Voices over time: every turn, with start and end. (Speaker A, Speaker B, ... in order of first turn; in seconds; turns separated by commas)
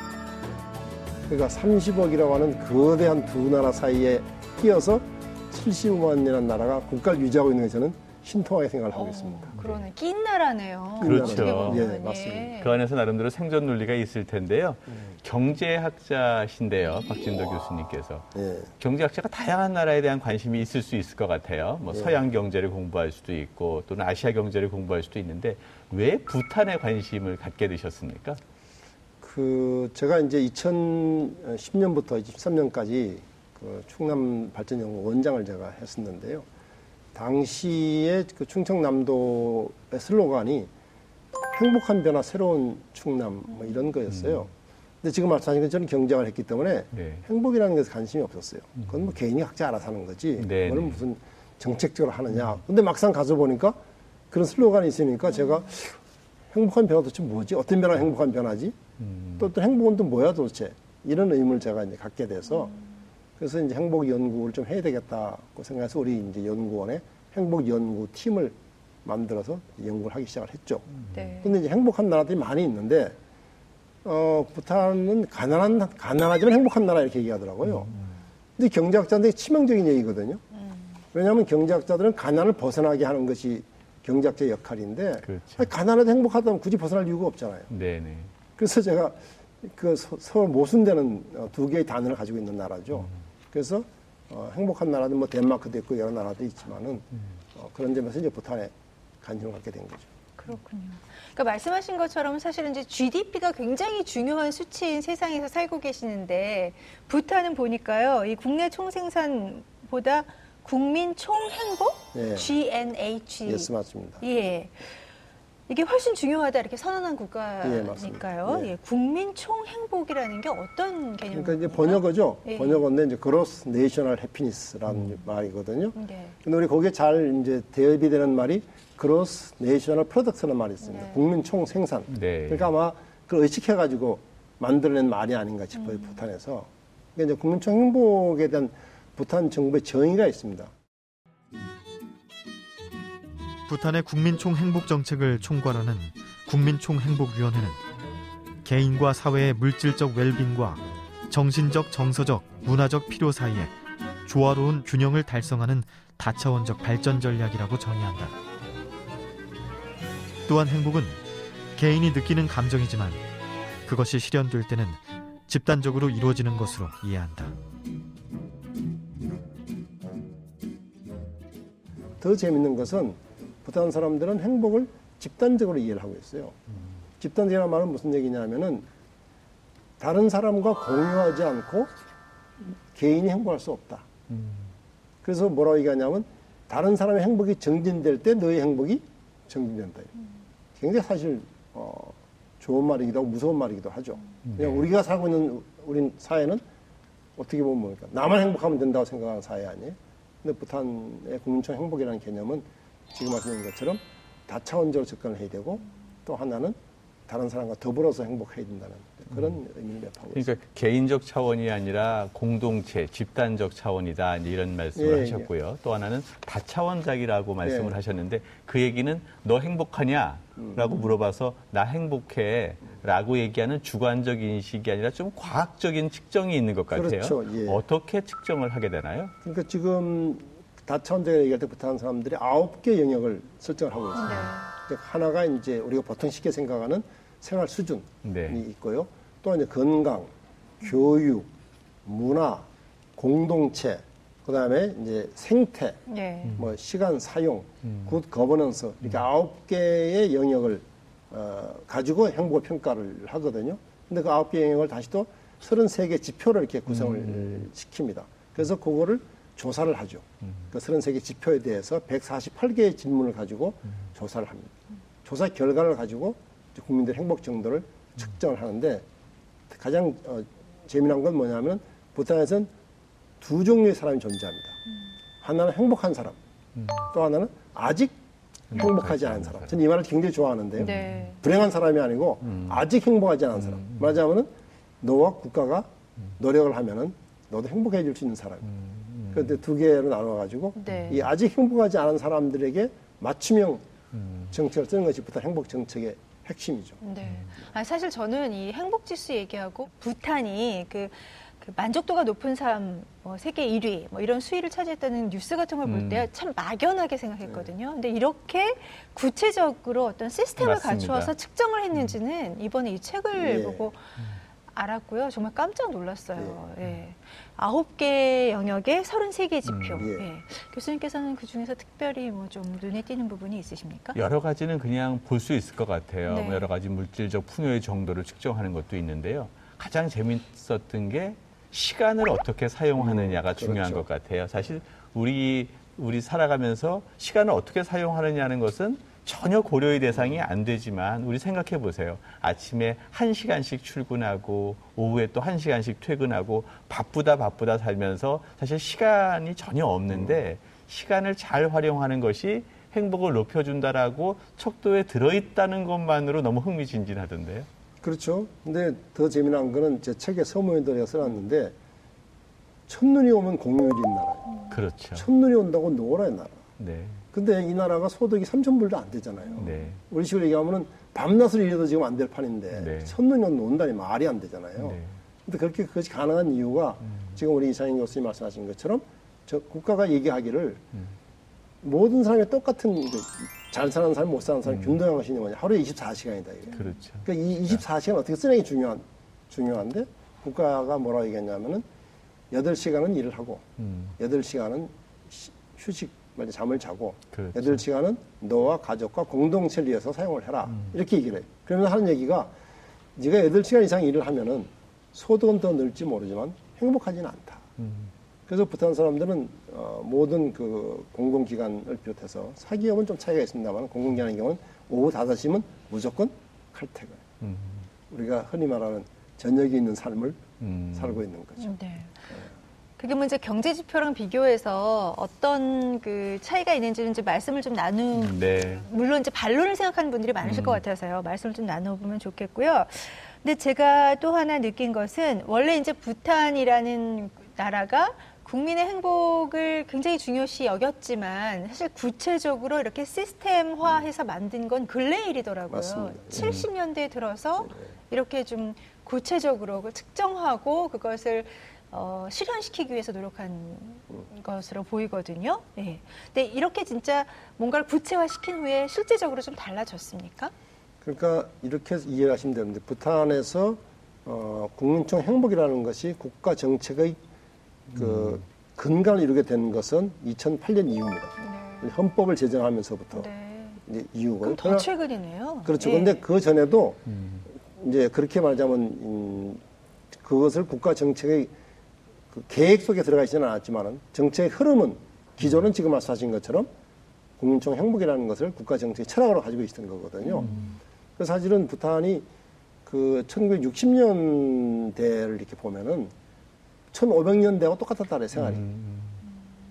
Speaker A: 1.3-9.6, Speaker B: 8.9-12.8, Speaker C: 9.6-9.8, Speaker A: 11.0-12.5, Speaker C: 11.0-11.9, Speaker C: 12.6-18.3, Speaker A: 18.4-18.7, Speaker C: 18.8-28.4, Speaker A: 21.9-22.2, Speaker A: 29.2-36.5, Speaker A: 37.1-40.7, Speaker A: 41.5-44.5, Speaker C: 44.1-44.5, Speaker A: 45.0-53.8, Speaker C: 46.9-47.2, Speaker C: 50.4-51.0, Speaker A: 54.3-56.0, Speaker A: 56.5-58.8, Speaker C: 59.0-59.5, Speaker A: 59.4-62.7, Speaker A: 63.4-70.9, Speaker B: 71.1-71.5, Speaker A: 71.4-73.2, Speaker A: 74.0-77.9, Speaker C: 77.7-78.0, Speaker A: 78.6-80.4, Speaker B: 80.5-80.9, Speaker A: 81.1-87.7, Speaker C: 85.3-85.7, Speaker C: 87.7-88.3, Speaker A: 88.6-100.1, Speaker B: 100.4-115.0, Speaker A: 112.1-112.5, Speaker A: 113.5-114.2, Speaker B: 115.7-122.8, Speaker A: 117.6-118.7, Speaker A: 121.3-140.7, Speaker B: 126.0-126.3, Speaker B: 130.8-131.2, Speaker C: 132.1-132.7, Speaker B: 135.8-136.2, Speaker D: 143.7-147.8, Speaker D: 148.6-153.7, Speaker D: 154.3-158.3, Speaker D: 160.5-161.2, Speaker D: 161.8-163.2, Speaker D: 163.8-167.6, Speaker A: 172.2-176.6, Speaker A: 177.2-178.9, Speaker A: 180.0-181.9, Speaker A: 182.6-184.1, Speaker C: 184.3-184.7, Speaker A: 185.2-190.1, Speaker A: 190.8-196.6, Speaker C: 194.4-194.8, Speaker A: 197.4-206.8, Speaker A: 207.3-210.5, Speaker C: 210.3-229.3, Speaker A: 215.0-215.5, Speaker A: 217.6-218.0, Speaker A: 220.6-220.8, Speaker A: 226.9-227.8, Speaker A: 229.4-241.5, Speaker B: 234.2-234.7, Speaker C: 238.2-238.6, Speaker A: 242.1-246.0, Speaker B: 246.1-246.6, Speaker A: 246.6-264.7, Speaker C: 247.8-248.2, Speaker C: 256.9-257.6, Speaker A: 265.2-269.1, Speaker A: 269.7-272.7, Speaker A: 273.4-274.8, Speaker A: 275.4-276.4, Speaker C: 276.8-277.1, Speaker A: 277.1-278.2, Speaker C: 278.7-279.7, Speaker A: 278.7-288.7, Speaker B: 280.8-281.4, Speaker C: 280.9-281.1, Speaker C: 282.4-282.8, Speaker C: 283.7-284.1, Speaker C: 288.7-289.5, Speaker A: 289.3-293.9, Speaker B: 290.8-291.3, Speaker C: 290.9-291.2, Speaker C: 294.1-294.5, Speaker A: 294.5-297.0, Speaker B: 297.0-314.0, Speaker C: 297.2-297.5, Speaker C: 305.9-306.3, Speaker C: 310.6-311.3, Speaker A: 313.4-313.9, Speaker B: 314.7-324.2, Speaker C: 319.6-320.1, Speaker A: 320.0-320.3, Speaker C: 324.1-357.7, Speaker B: 326.3-326.7, Speaker A: 333.0-334.1, Speaker A: 358.0-361.7, Speaker A: 362.9-364.6, Speaker C: 364.7-365.3, Speaker A: 365.1-366.7, Speaker C: 366.8-367.2, Speaker A: 367.3-380.8, Speaker C: 369.6-370.0, Speaker C: 372.8-373.1, Speaker C: 374.8-375.1, Speaker C: 377.1-377.4, Speaker A: 381.8-391.8, Speaker C: 386.8-387.8, Speaker A: 392.5-393.6, Speaker C: 393.8-394.1, Speaker A: 394.2-402.5, Speaker C: 397.3-397.8, Speaker A: 403.2-407.6, Speaker C: 407.8-408.1, Speaker A: 408.5-417.2, Speaker C: 417.4-417.9, Speaker A: 418.1-421.7, Speaker C: 420.6-421.2, Speaker B: 421.6-422.3, Speaker B: 423.0-460.5, Speaker C: 428.1-428.9, Speaker C: 430.4-430.8, Speaker A: 445.7-446.6, Speaker C: 446.4-446.7, Speaker A: 461.0-467.2, Speaker A: 467.9-473.3, Speaker B: 471.4-471.9, Speaker B: 473.1-473.8, Speaker A: 473.9-474.9, Speaker B: 474.4-476.2, Speaker A: 475.6-477.0, Speaker C: 477.1-477.4, Speaker A: 477.6-481.5, Speaker A: 482.3-486.7, Speaker A: 487.4-490.5, Speaker B: 490.2-490.8, Speaker A: 491.2-492.3, Speaker A: 492.9-496.1, Speaker A: 496.9-498.6, Speaker C: 498.4-499.2